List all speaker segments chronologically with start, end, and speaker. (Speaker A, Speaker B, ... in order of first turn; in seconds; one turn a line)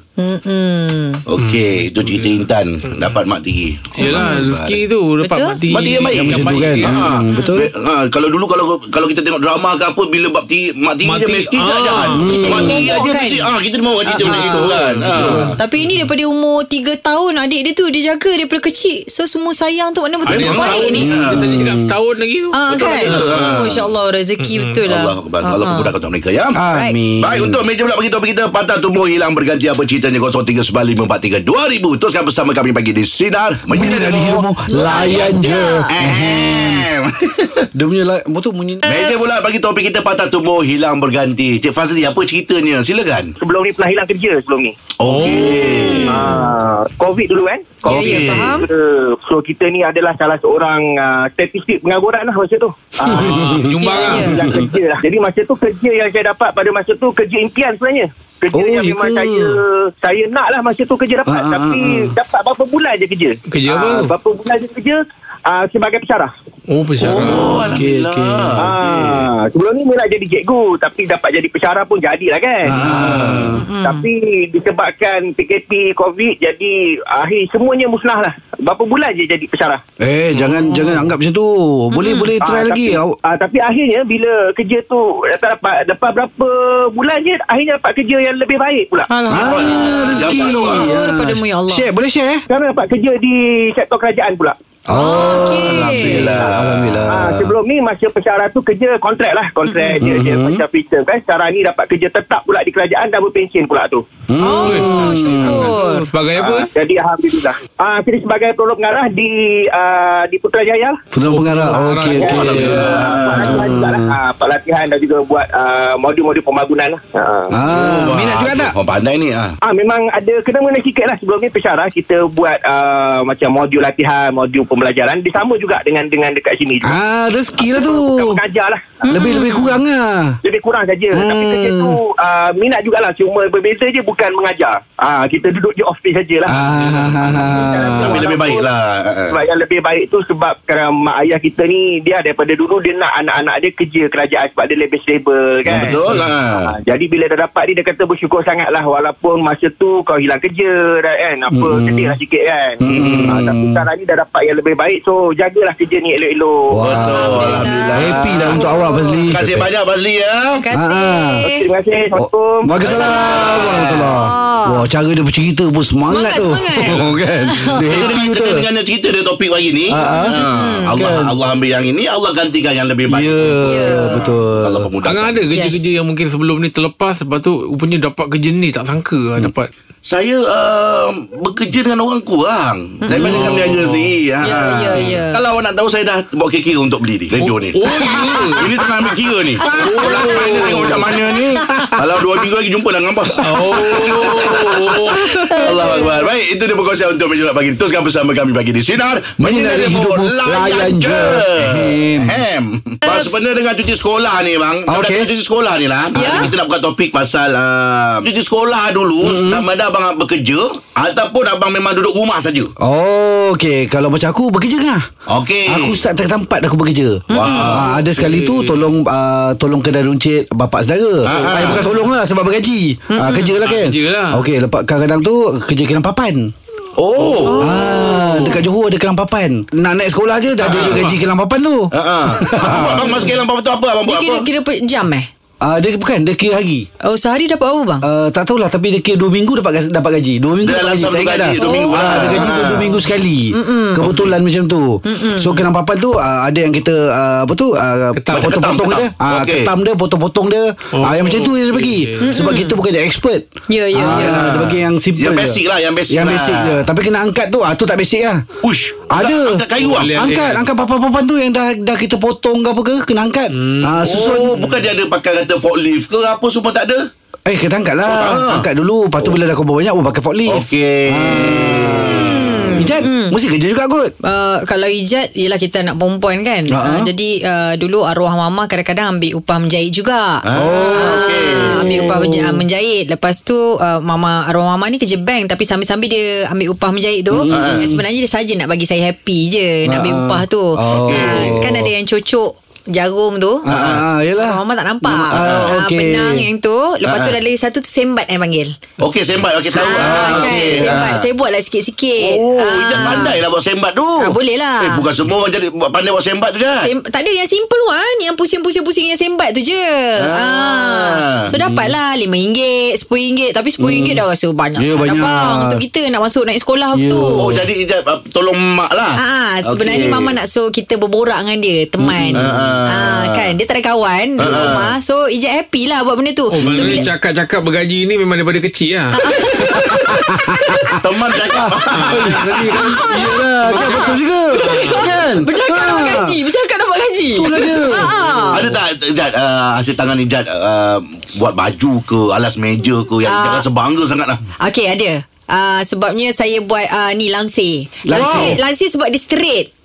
Speaker A: 0.2-1.2
Speaker B: 1.3-4.8
Speaker C: 1.4-2.5
Speaker C: 4.0-7.0
Speaker A: 4.0-4.3
Speaker A: 5.2-5.6
Speaker B: 5.7-15.6
Speaker D: 6.1-7.7
Speaker A: 7.3-7.6
Speaker C: 11.0-12.6
Speaker D: 12.1-12.9
Speaker A: 12.2-14.8
Speaker C: 14.3-16.1
Speaker D: 15.1-15.5
Speaker A: 15.6-21.1
Speaker B: 20.2-21.6
Speaker C: 20.3-23.4
Speaker D: 20.9-21.9
Speaker A: 22.5-25.9
Speaker B: 22.7-23.8
Speaker C: 24.4-24.8
Speaker B: 24.9-26.6
Speaker D: 26.5-27.6
Speaker A: 26.7-26.9
Speaker B: 27.2-35.4
Speaker D: 33.7-36.9
Speaker A: 34.7-35.9
Speaker B: 35.9-37.6
Speaker D: 37.7-39.0
Speaker B: 38.8-43.3
Speaker E: 43.4-44.7
Speaker B: 45.0-46.2
Speaker C: 45.0-45.5
Speaker A: 45.2-46.5
Speaker E: 46.1-66.3
Speaker A: 47.8-48.6
Speaker B: 47.9-48.5
Speaker D: 53.1-53.6
Speaker C: 53.1-54.4
Speaker A: 53.8-54.4
Speaker D: 54.1-54.6
Speaker D: 58.5-59.5
Speaker D: 61.2-62.1
Speaker C: 63.5-64.1
Speaker C: 66.7-67.6
Speaker B: 67.0-69.2
Speaker D: 67.0-68.7
Speaker E: 68.6-79.8
Speaker D: 72.6-73.6
Speaker B: 72.7-73.6
Speaker A: 73.5-74.0
Speaker D: 80.0-83.1
Speaker A: 80.7-81.0
Speaker A: 81.9-82.3
Speaker E: 82.4-89.1
Speaker A: 89.1-91.9
Speaker D: 89.3-92.4
Speaker B: 89.3-90.9
Speaker E: 92.5-94.5
Speaker D: 94.9-97.5
Speaker A: 94.9-96.4
Speaker B: 95.2-97.0
Speaker E: 97.1-104.0
Speaker A: 99.7-100.0
Speaker D: 100.0-100.6
Speaker D: 104.3-105.7
Speaker A: 104.4-106.0
Speaker C: 104.6-106.7
Speaker E: 106.3-111.0
Speaker D: 111.1-114.2
Speaker C: 111.3-112.9
Speaker E: 111.7-117.5
Speaker B: 112.3-113.6
Speaker D: 117.5-118.7
Speaker B: 117.7-119.5
Speaker E: 119.6-127.0
Speaker D: 126.8-128.4
Speaker E: 127.6-128.9
Speaker A: 129.1-129.8
Speaker D: 129.1-130.3
Speaker E: 130.4-136.6
Speaker D: 131.1-131.9
Speaker D: 136.5-138.2
Speaker C: 136.7-137.4
Speaker B: 137.2-139.4
Speaker E: 137.6-138.7
Speaker E: 139.3-156.8
Speaker B: 145.6-146.7
Speaker D: 151.5-152.2
Speaker D: 152.8-153.8
Speaker B: 152.8-153.4
Speaker D: 156.7-159.7
Speaker B: 156.8-158.6
Speaker A: 157.0-159.2
Speaker B: 159.3-160.6
Speaker A: 160.6-161.6
Speaker D: 160.7-161.5
Speaker E: 161.4-163.1
Speaker D: 162.1-168.6
Speaker A: 162.8-164.8
Speaker B: 162.9-164.1
Speaker A: 166.1-168.2
Speaker B: 167.8-175.5
Speaker D: 169.9-171.3
Speaker A: 170.0-171.0
Speaker D: 173.1-174.9
Speaker A: 173.6-174.3
Speaker C: 175.0-179.7
Speaker A: 175.5-175.9
Speaker B: 180.1-212.7
Speaker A: 183.0-183.6
Speaker C: 183.2-184.2
Speaker A: 184.4-185.4
Speaker C: 187.4-188.7
Speaker A: 189.6-191.7
Speaker C: 189.8-191.1
Speaker C: 193.4-195.3
Speaker A: 195.8-196.1
Speaker D: 199.4-202.4
Speaker D: 204.9-205.3
Speaker A: 206.1-206.5
Speaker D: 206.2-206.5
Speaker D: 209.2-209.7
Speaker D: 212.8-215.1
Speaker B: 215.3-216.0
Speaker D: 215.7-226.5
Speaker B: 217.3-217.9
Speaker A: 217.3-217.8
Speaker C: 217.4-218.9
Speaker B: 221.2-221.8
Speaker C: 221.6-221.8
Speaker A: 223.1-223.6
Speaker C: 223.6-224.4
Speaker B: 226.9-227.8
Speaker A: 227.4-228.6
Speaker D: 227.5-233.2
Speaker B: 230.6-231.2
Speaker C: 230.7-231.2
Speaker B: 231.9-234.5
Speaker A: 232.8-233.3
Speaker A: 234.1-235.3
Speaker D: 235.6-236.9
Speaker A: 237.0-238.0
Speaker D: 238.0-258.4
Speaker B: 240.6-242.9
Speaker A: 241.6-242.7
Speaker A: 243.5-244.2
Speaker A: 245.0-245.7
Speaker C: 248.2-248.6
Speaker B: 248.3-249.7
Speaker C: 250.9-252.3
Speaker A: 252.2-252.8
Speaker A: 253.7-254.5
Speaker B: 254.0-256.8
Speaker B: 258.6-260.3
Speaker D: 259.1-264.6
Speaker C: 259.8-260.6
Speaker C: 263.5-263.9
Speaker B: 264.0-267.1
Speaker D: 267.4-274.1
Speaker B: 268.0-268.7
Speaker B: 270.4-273.0
Speaker A: 271.7-273.4
Speaker A: 274.2-293.7
Speaker D: 276.7-277.1
Speaker B: 280.4-282.1
Speaker D: 280.6-282.6
Speaker D: 287.3-288.0
Speaker B: 287.5-287.9
Speaker D: 289.9-291.9
Speaker B: 290.9-291.7
Speaker D: 293.6-296.5
Speaker B: 293.7-294.0
Speaker A: 294.3-298.7
Speaker B: 295.3-295.7
Speaker B: 297.1-297.4
Speaker B: 299.0-301.2
Speaker A: 299.7-303.4
Speaker D: 299.8-301.1
Speaker B: 302.2-306.9
Speaker D: 302.9-303.3
Speaker A: 304.2-305.0
Speaker A: 306.8-317.5
Speaker B: 310.2-311.4
Speaker D: 311.5-311.9
Speaker D: 313.8-314.2
Speaker D: 314.8-315.8
Speaker D: 316.9-317.6
Speaker B: 317.4-320.3
Speaker A: 319.2-327.1
Speaker D: 322.0-322.7
Speaker B: 322.3-323.5
Speaker B: 324.4-324.9
Speaker D: 324.4-324.7
Speaker C: 326.5-329.7
Speaker D: 326.6-327.1
Speaker A: 329.2-330.9
Speaker D: 329.4-330.9
Speaker B: 331.0-332.6
Speaker D: 331.5-336.4
Speaker C: 332.0-334.2
Speaker A: 332.7-334.2
Speaker A: 334.7-338.7
Speaker B: 334.8-335.1
Speaker D: 337.4-338.3
Speaker B: 338.5-344.4
Speaker A: 343.2-343.6
Speaker A: 344.6-349.7
Speaker D: 348.0-348.6
Speaker B: 348.1-348.6